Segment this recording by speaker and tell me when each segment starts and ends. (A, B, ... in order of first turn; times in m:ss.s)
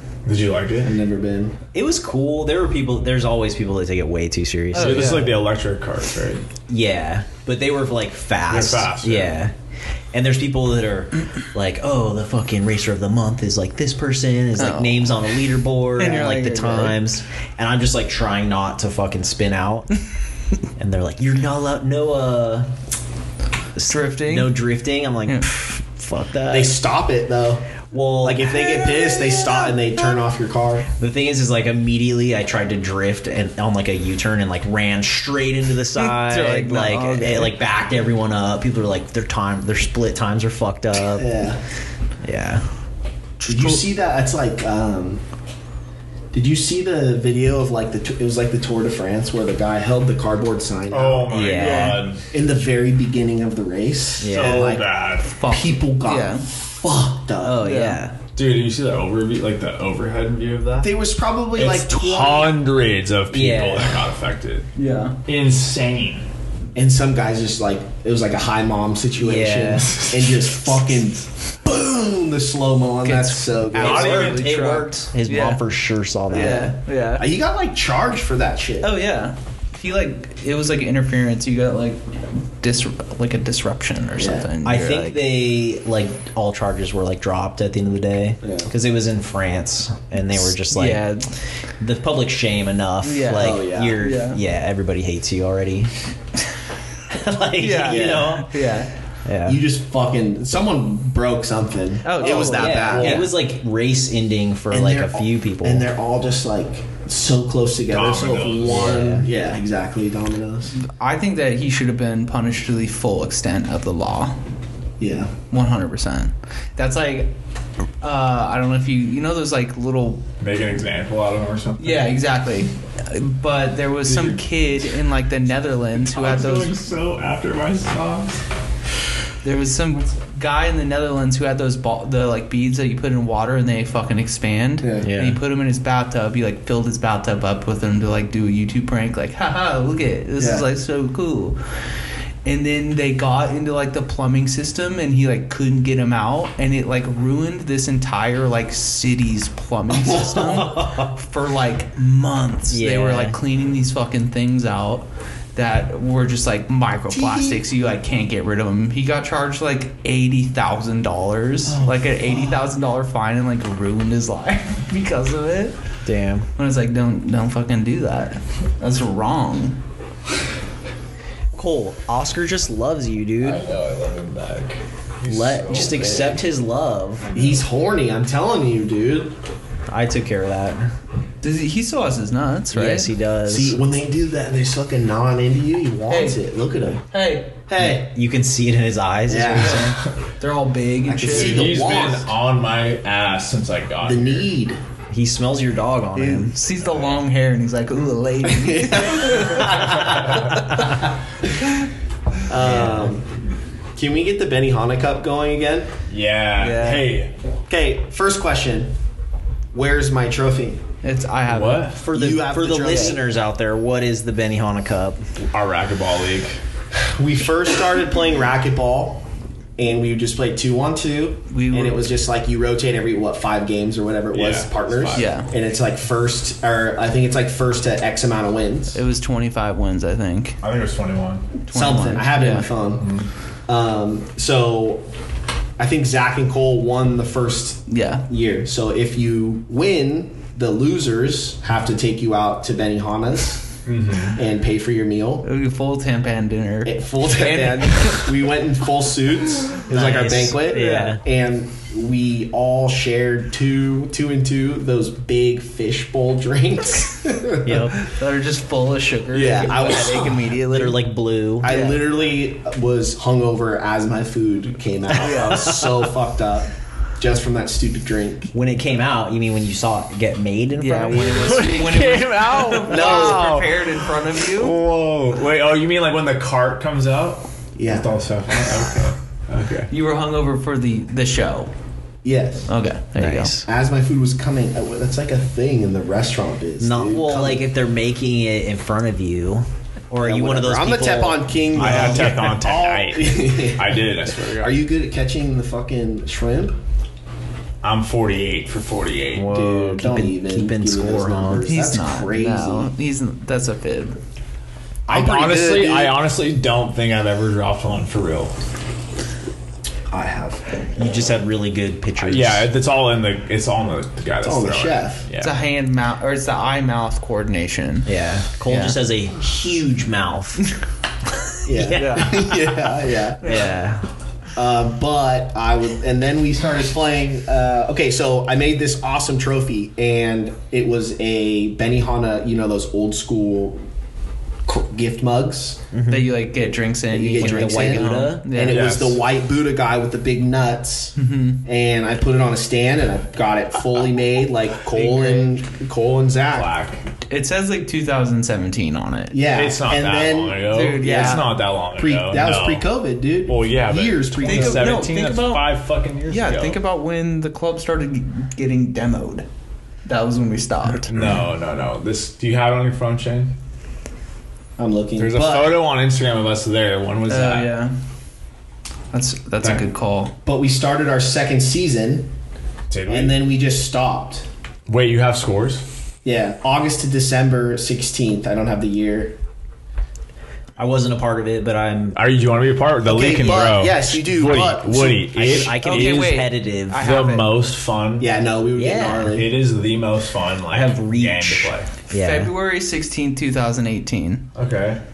0:00.2-0:01.0 A
0:00.8-0:01.6 B
0:01.7-0:05.3 C
0:04.7-0:05.4 D
0:04.7-0:06.4 A
0:06.7-0:09.5 C
0:08.5-0:09.4 A
0:10.1-0:19.9 C
0:14.6-0:15.2 D
0:16.0-0:17.0 D
0:20.8-0:22.7 C
0:23.8-0:26.8 C
0:23.9-0:24.6 D
0:26.5-0:30.9 B
0:27.9-0:28.7 C
0:28.6-0:30.1 D
0:31.0-0:41.3 C
0:35.9-0:37.6 D
0:41.2-0:41.6 B
0:42.2-0:42.6 C
0:43.4-0:43.8 D
0:43.4-0:45.2 B
0:46.3-0:54.8 B
0:50.9-0:52.2 A
0:51.3-0:52.0 C
0:51.6-0:52.0 D
0:54.2-0:54.8 C
0:54.2-0:55.3 A
0:55.2-0:56.4 D
0:55.4-0:57.6 B
0:57.4-0:58.2 C
0:57.6-0:58.0 D
0:58.4-1:00.9 A
1:00.8-1:02.5 B
1:01.5-1:04.7 A
1:03.3-1:04.0 C
1:04.8-1:05.2 D
1:05.2-1:06.2 A
1:06.7-1:14.4 B
1:09.2-1:09.9 C
1:09.9-1:10.6 A
1:13.0-1:15.6 D
1:13.7-1:16.8 C
1:13.7-1:14.5 A
1:16.3-1:17.3 D
1:17.1-1:18.9 B
1:18.8-1:25.3 D
1:24.2-1:24.5 B
1:24.6-1:31.2 C
1:28.4-1:28.7 B
1:30.7-1:31.3 D
1:31.8-1:35.9 C
1:33.0-1:34.4 D
1:33.4-1:34.0 B
1:37.1-1:38.5 C
1:37.6-1:38.9 D
1:37.8-1:38.3 B
1:39.2-1:39.6 C
1:39.4-1:43.3 B
1:42.0-1:43.3 D
1:42.2-1:45.9 C
1:44.7-1:50.7 B
1:47.9-1:49.1 A
1:48.6-1:49.3 C
1:50.7-1:54.4 D
1:55.0-1:55.3 B
1:55.5-1:57.3 D
1:58.0-2:00.3 D
2:00.4-2:02.1 A
2:01.8-2:06.8 D
2:04.0-2:04.6 A
2:06.1-2:08.4 A
2:09.4-2:21.6 D
2:14.8-2:15.1 B
2:15.0-2:15.4 C
2:20.4-2:20.7 B
2:22.4-2:45.8 D
2:29.9-2:30.4 B
2:30.3-2:31.1 C
2:32.7-2:33.4 C
2:37.1-2:37.6 B
2:41.7-2:42.6 B
2:46.0-2:46.5 C
2:46.6-2:49.8 D
2:51.5-2:53.6 C
2:53.4-2:56.4 A
2:55.2-2:57.3 C
2:55.8-2:56.3 B
2:57.3-2:57.6 A
2:57.3-2:59.4 B
2:59.9-3:00.9 C
3:01.4-3:03.1 D
3:02.7-3:03.8 C
3:03.5-3:07.1 B
3:06.1-3:06.4 D
3:07.1-3:07.5 D
3:07.7-3:08.1 B
3:07.8-3:10.0 C
3:09.3-3:09.9 B
3:09.6-3:11.8 D
3:11.0-3:12.3 B
3:11.2-3:14.5 A
3:14.0-3:14.8 B
3:15.1-3:16.6 C
3:16.1-3:19.9 D
3:16.8-3:17.2 A
3:18.5-3:20.3 B
3:19.6-3:20.9 C
3:20.0-3:20.5 A
3:22.5-3:23.3 B
3:22.6-3:23.1 C
3:24.0-3:25.9 B
3:26.1-3:27.3 A
3:26.6-3:27.1 D
3:27.7-3:28.9 B
3:29.7-3:30.8 B
3:31.0-3:31.9 D
3:31.5-3:32.0 A
3:32.0-3:35.2 C
3:32.1-3:33.2 B
3:35.5-3:36.6 A
3:36.9-3:39.2 B
3:39.8-3:49.0 B
3:41.5-3:42.1 D
3:44.3-3:45.3 A
3:45.1-3:45.5 D
3:48.9-3:50.6 D
3:50.6-3:51.5 A
3:51.7-3:52.7 D
3:51.7-3:53.1 B
3:53.0-3:53.3 A
3:53.7-3:55.0 B
3:55.8-4:03.7 B
3:57.9-3:58.3 D
4:03.8-4:04.4 A
4:04.3-4:05.4 B
4:05.4-4:08.3 D
4:06.8-4:17.9 B
4:09.9-4:11.2 C
4:10.6-4:11.2 D
4:17.6-4:18.0 C
4:18.0-4:21.0 D
4:19.3-4:20.4 B
4:20.7-4:21.8 C
4:21.6-4:28.5 B
4:21.6-4:22.0 D
4:25.1-4:26.1 C
4:25.2-4:25.7 D
4:28.5-4:31.7 C
4:30.8-4:34.8 D
4:31.3-4:39.9 A
4:32.9-4:33.6 B
4:37.8-4:38.1 B
4:39.9-4:41.7 D
4:42.2-4:42.7 B
4:42.7-4:43.6 D
4:43.2-4:43.7 C
4:43.6-4:47.6 B
4:46.8-4:52.4 C
4:50.2-4:56.8 B
4:51.7-4:54.8 A
4:57.8-4:59.6 A
4:59.3-5:01.7 C
4:59.4-5:02.9 B
5:01.6-5:04.2 D
5:05.1-5:06.2 B
5:05.1-5:08.5 A
5:10.1-5:11.2 B
5:11.0-5:12.7 C
5:12.2-5:15.6 A
5:14.4-5:15.2 B
5:15.4-5:18.1 D
5:18.0-5:20.6 C
5:18.6-5:19.0 D
5:21.6-5:23.6 B
5:21.7-5:22.8 C
5:21.9-5:22.5 D
5:23.4-5:23.8 D
5:23.4-5:24.0 C
5:24.5-5:33.8 B
5:34.6-5:35.8 B
5:35.9-5:36.3 C
5:36.1-5:38.9 D
5:37.1-5:46.7 B
5:37.4-5:38.5 C
5:38.6-5:39.2 A
5:41.2-5:41.6 D
5:44.9-5:45.6 D
5:46.5-5:47.0 A
5:47.3-5:49.4 D
5:49.3-5:55.0 B
5:49.5-5:52.9 A
5:50.7-5:51.5 D
5:53.4-5:56.8 A
5:54.4-5:55.7 D
5:56.3-5:59.4 D
6:00.0-6:01.1 D
6:01.1-6:03.5 A
6:04.8-6:05.8 B
6:05.2-6:07.7 A
6:07.3-6:07.9 D
6:09.1-6:10.4 D
6:10.4-6:12.3 B
6:12.9-6:13.4 A
6:13.1-6:14.4 B
6:14.9-6:15.8 A
6:16.2-6:19.4 B
6:20.8-6:22.2 C
6:22.1-6:25.8 A
6:23.0-6:25.7 B
6:25.3-6:27.0 C
6:25.8-6:27.5 D
6:27.0-6:28.3 A
6:28.2-6:29.5 B
6:28.8-6:29.4 C
6:29.3-6:31.9 A
6:30.7-6:32.5 C
6:32.1-6:34.5 D
6:34.5-6:35.0 A